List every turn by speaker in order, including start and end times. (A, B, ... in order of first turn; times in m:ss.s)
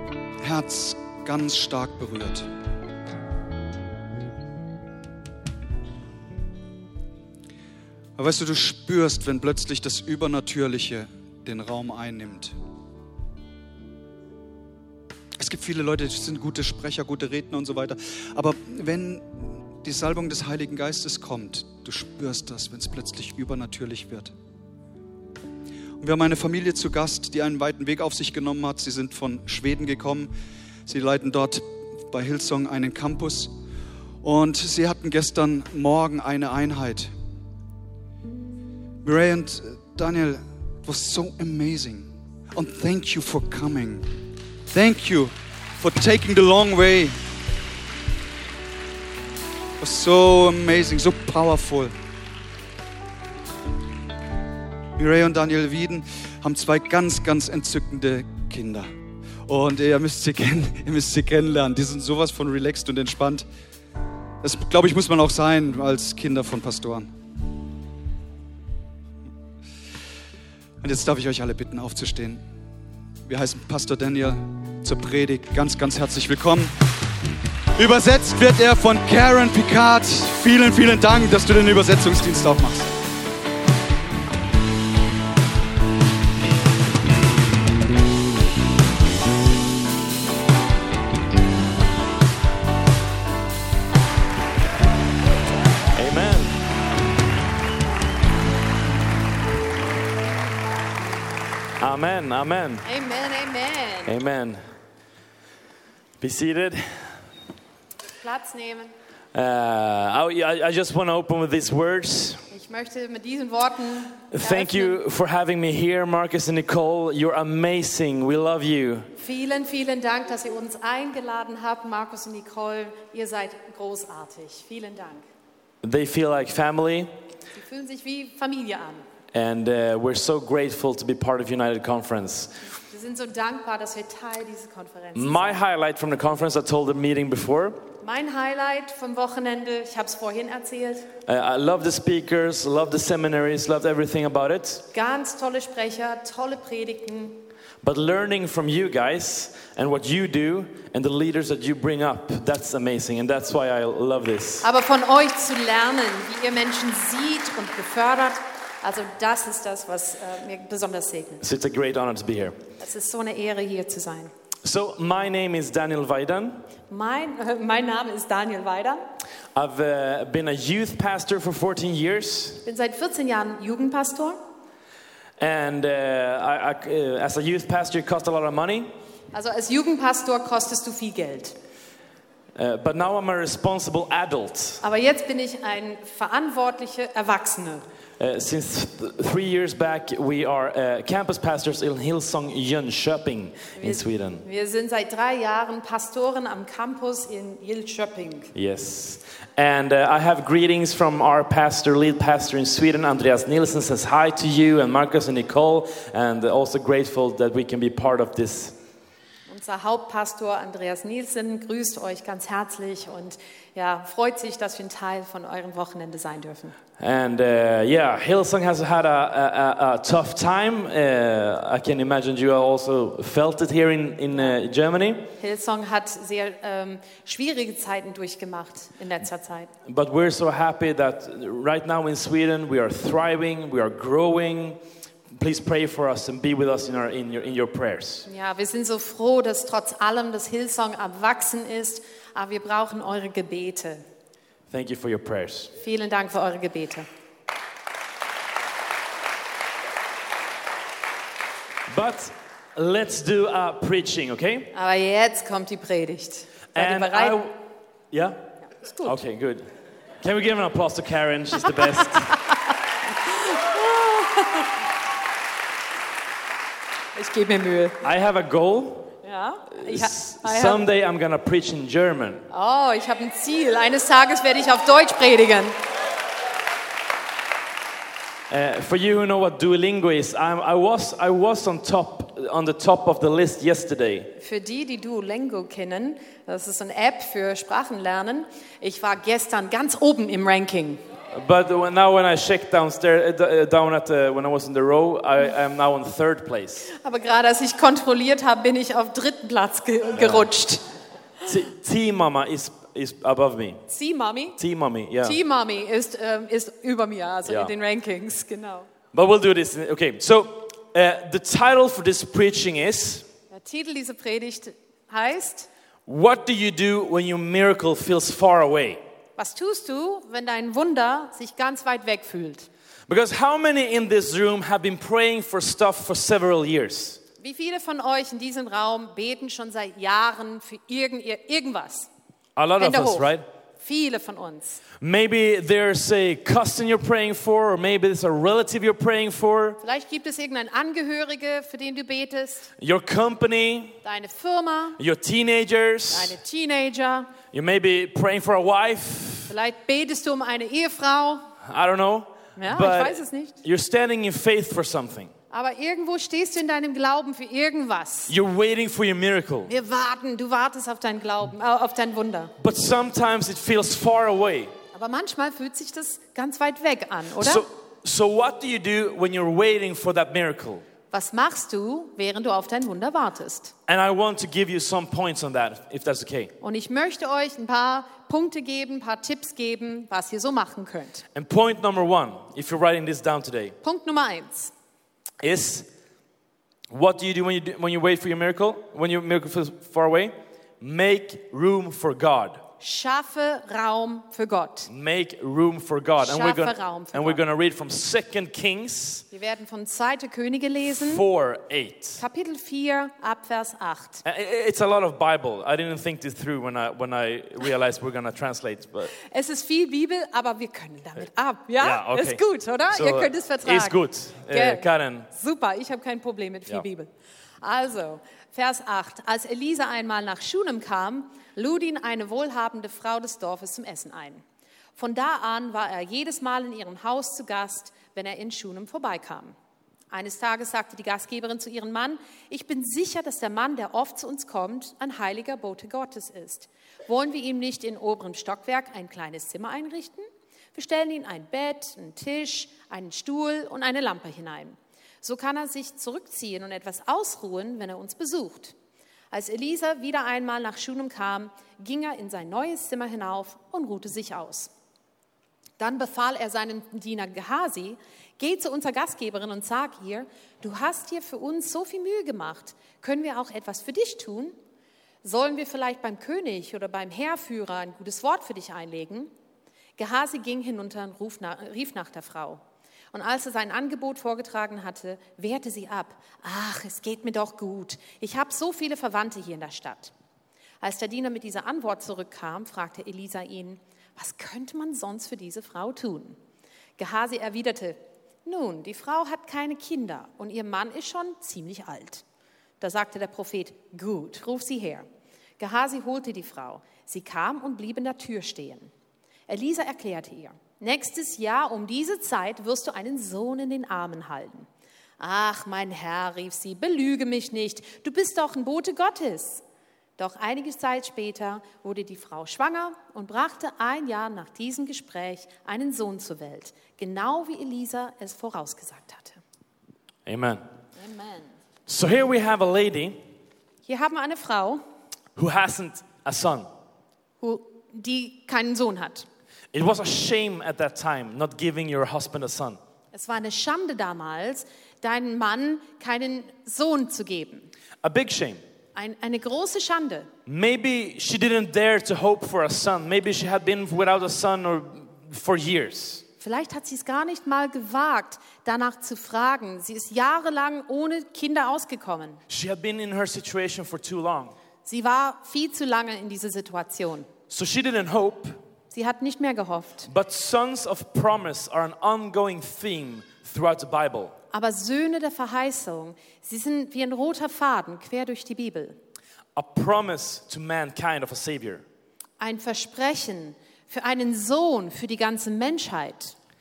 0:00.4-0:02.5 A
0:08.2-0:12.6 A
0:15.4-0:24.3 A
0:26.0-0:30.3 A
0:30.9-0:33.5 A
0:34.2-0:37.1 A
0:39.0-0:44.1 A
0:44.7-0:47.2 A
0:49.8-0:51.9 A
0:55.0-0:58.9 A
0:59.5-1:03.4 A
1:04.4-1:07.1 A
1:10.8-1:12.4 A
1:13.3-1:16.7 A
1:17.8-1:22.9 A
1:35.9-1:36.6 B
1:41.8-1:42.8 B
1:42.8-1:44.1 C
1:44.1-1:44.6 B
1:46.2-1:47.1 B
1:48.2-1:48.9 C
1:49.3-1:52.4 B
1:52.5-1:55.0 C
1:54.3-1:59.1 B
1:59.2-2:05.2 C
2:05.8-2:07.1 B
2:07.5-2:09.0 C
2:09.3-2:12.5 B
2:12.8-2:15.6 C
2:15.2-2:17.8 B
2:18.0-2:21.1 C
2:21.3-2:24.9 B
2:24.9-2:27.4 C
2:27.8-2:34.7 B
2:34.6-2:41.4 C
2:41.4-2:42.6 B
2:42.8-2:44.3 C
2:44.6-2:46.7 B
2:46.9-2:49.0 C
2:49.6-2:52.6 B
2:52.6-2:54.4 C
2:55.4-2:58.9 B
2:59.3-3:01.6 C
3:02.6-3:04.8 B
3:04.8-3:07.8 C
3:08.2-3:14.4 B
3:13.8-3:18.5 C
3:18.6-3:28.8 B
3:29.5-3:36.8 C
3:37.0-3:45.3 B
3:45.4-3:49.7 C
3:49.8-3:54.8 B
3:55.3-3:58.3 B
3:58.3-4:04.0 C
4:04.7-4:05.7 B
4:05.8-4:07.1 C
4:11.9-4:14.7 B
4:14.7-4:17.4 C
4:16.8-4:17.6 B
4:18.1-4:18.4 B
4:18.8-4:19.1 C
4:19.0-4:19.7 B
4:20.2-4:22.4 B
4:23.3-4:24.7 C
4:27.2-4:28.0 C
4:28.0-4:29.2 B
4:29.2-4:30.8 C
4:29.7-4:32.5 B
4:32.5-4:35.8 C
4:38.5-4:44.3 B
4:44.4-4:51.0 C
4:51.3-4:56.9 B
4:56.9-5:00.8 C
5:00.2-5:00.5 B
5:01.4-5:03.8 B
5:03.9-5:04.6 C
5:04.6-5:05.4 B
5:05.2-5:08.9 C
5:07.5-5:07.7 B
5:09.1-5:13.3 B
5:13.5-5:15.7 C
5:16.1-5:19.0 B
5:19.4-5:22.7 C
5:23.1-5:27.2 B
5:27.4-5:32.1 C
5:32.6-5:33.4 B
5:32.8-5:34.8 C
5:35.0-5:39.8 B
5:39.8-5:42.7 C
5:42.8-5:44.0 B
5:44.0-5:45.0 C
5:45.0-5:46.4 B
5:46.1-5:47.3 C
5:47.5-5:49.5 B
5:49.5-5:51.5 C
5:51.6-5:55.3 B
5:52.6-5:53.6 C
5:55.5-5:58.3 C
5:58.3-5:59.7 B
5:59.7-6:02.5 C
6:02.6-6:04.7 B
6:04.9-6:07.6 C
6:07.4-6:10.8 B
6:11.1-6:13.7 C
6:13.9-6:16.5 B
6:16.6-6:21.2 C
6:21.4-6:23.8 B
6:23.8-6:24.7 C
6:25.4-6:25.9 B
6:26.9-6:32.6 B
6:32.8-6:34.9 C
6:34.9-6:39.2 B
6:36.2-6:37.4 C
6:39.3-6:41.2 C
6:40.9-6:42.2 B
6:42.2-6:44.2 C
6:44.2-6:49.1 B
6:49.2-6:57.1 C
6:51.8-6:55.3 B
6:57.6-7:04.4 C
7:05.0-7:09.6 C
7:10.1-7:28.7 C
7:29.3-7:34.7 C
7:35.8-7:44.6 C
7:45.2-7:49.3 C
7:50.0-7:52.6 C
7:53.1-8:00.1 C
8:00.8-8:06.4 C
8:07.0-8:12.2 C
8:12.8-8:15.1 C
8:15.6-8:18.9 C
8:19.5-8:24.7 C
8:25.2-8:29.6 C
8:30.2-8:39.4 C
8:40.3-8:40.6 B
8:41.0-8:41.5 C
8:41.9-8:43.2 B
8:43.9-8:44.8 C
8:45.4-8:46.7 B
8:47.4-8:49.3 C
8:49.7-8:52.8 B
8:53.1-8:57.7 C
8:58.0-8:58.6 B
8:59.0-9:00.3 C
9:00.5-9:06.2 B
9:06.4-9:12.4 C
9:12.5-9:14.5 B
9:14.9-9:17.3 C
9:17.5-9:18.6 B
9:18.9-9:20.1 C
9:20.1-9:24.4 B
9:24.5-9:29.0 C
9:29.6-9:31.8 B
9:32.4-9:36.4 C